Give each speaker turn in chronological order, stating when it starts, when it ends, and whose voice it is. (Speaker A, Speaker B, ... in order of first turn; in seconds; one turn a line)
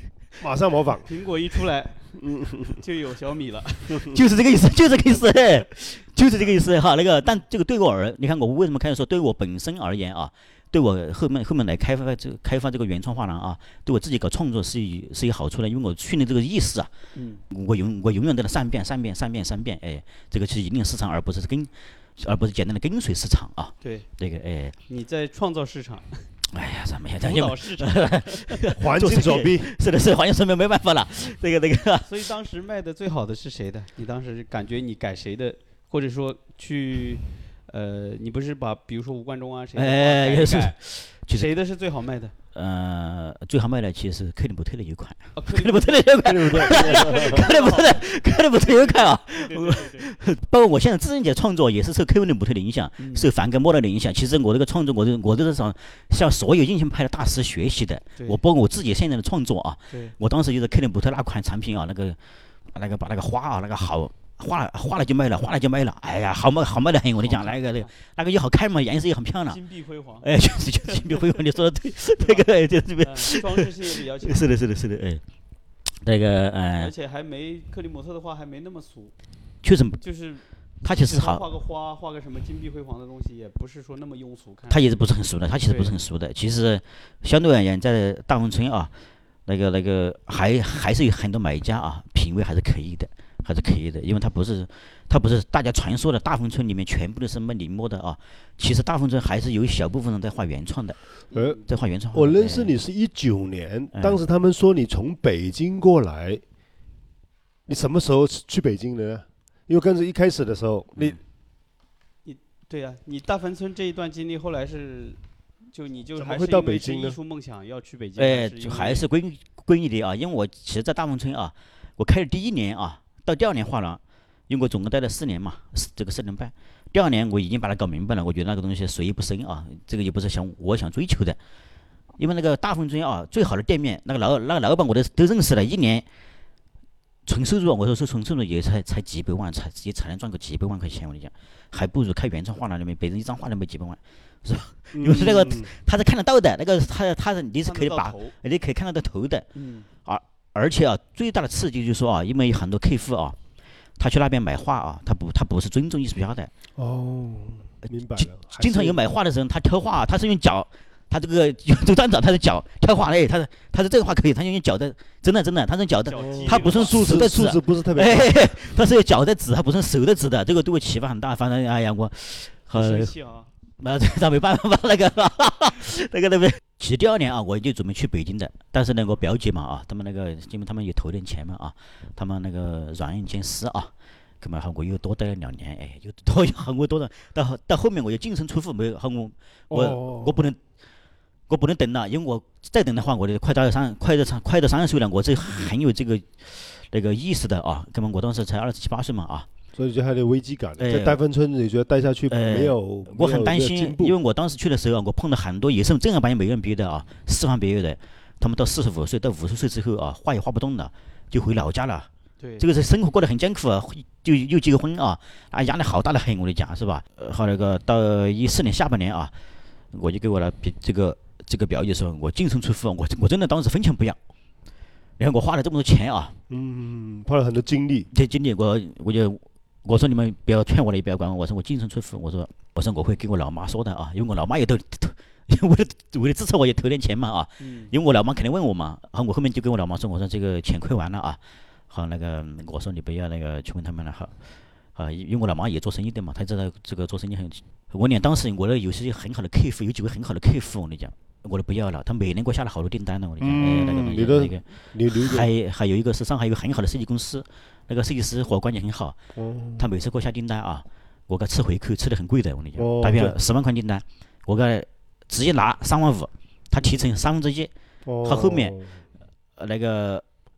Speaker A: 0.4-1.1
Speaker B: 1.1-4.1
Speaker A: 2.2-2.8
Speaker C: 4.0-16.9
Speaker B: 17.1-17.4
Speaker C: 17.5-24.8
Speaker B: 23.8-24.1
Speaker B: 24.9-26.3
Speaker C: 26.5-32.1
Speaker B: 27.2-28.7
Speaker A: 28.8-29.7
Speaker B: 32.0-40.8
Speaker C: 39.8-41.5
Speaker B: 41.3-42.3
Speaker C: 42.5-62.2
Speaker B: 45.3-48.0
Speaker A: 46.2-47.5
Speaker B: 48.7-50.1
Speaker B: 53.0-53.3
Speaker B: 59.9-60.1
Speaker C: 62.7-69.6
Speaker B: 67.2-67.9
Speaker B: 69.5-70.3
Speaker C: 70.2-73.7
Speaker B: 70.8-71.4
Speaker B: 72.2-72.5
Speaker B: 73.0-74.5
Speaker C: 74.2-75.2
Speaker C: 76.0-76.9
Speaker B: 76.8-79.1
Speaker C: 79.6-80.0
Speaker B: 80.0-85.0
Speaker C: 80.8-81.4
Speaker C: 84.7-88.9
Speaker B: 85.7-86.0
Speaker C: 89.5-101.0
Speaker B: 101.3-101.6
Speaker A: 101.3-101.6
Speaker C: 101.7-102.7
Speaker A: 102.1-106.4
Speaker C: 103.9-104.2
Speaker A: 107.7-111.2
Speaker B: 112.2-115.2
Speaker B: 115.7-119.0
Speaker A: 116.2-117.2
Speaker C: 118.2-131.4
Speaker C: 132.2-136.0
Speaker C: 137.2-149.5
Speaker A: 144.9-145.7
Speaker B: 147.6-148.3
Speaker B: 149.5-149.9
Speaker C: 150.0-153.4
Speaker C: 154.0-156.5
Speaker A: 156.8-159.0
Speaker C: 158.2-173.1
Speaker B: 166.1-167.0
Speaker A: 166.1-168.5
Speaker B: 172.7-173.5
Speaker C: 173.8-190.6
Speaker A: 189.7-190.5
Speaker C: 191.5-199.5
Speaker A: 199.7-204.1
Speaker C: 200.8-201.2
Speaker C: 202.3-219.3
Speaker B: 212.4-212.7
Speaker C: 219.9-224.2
Speaker C: 225.2-226.3
Speaker A: 226.5-228.1
Speaker C: 228.1-241.4
Speaker B: 237.6-237.9
Speaker C: 241.9-244.3
Speaker C: 244.9-259.2
Speaker A: 253.4-255.5
Speaker A: 259.4-259.9
Speaker C: 259.8-267.7
Speaker A: 262.8-263.3
Speaker A: 268.0-269.0
Speaker C: 268.2-268.8
Speaker C: 269.6-270.2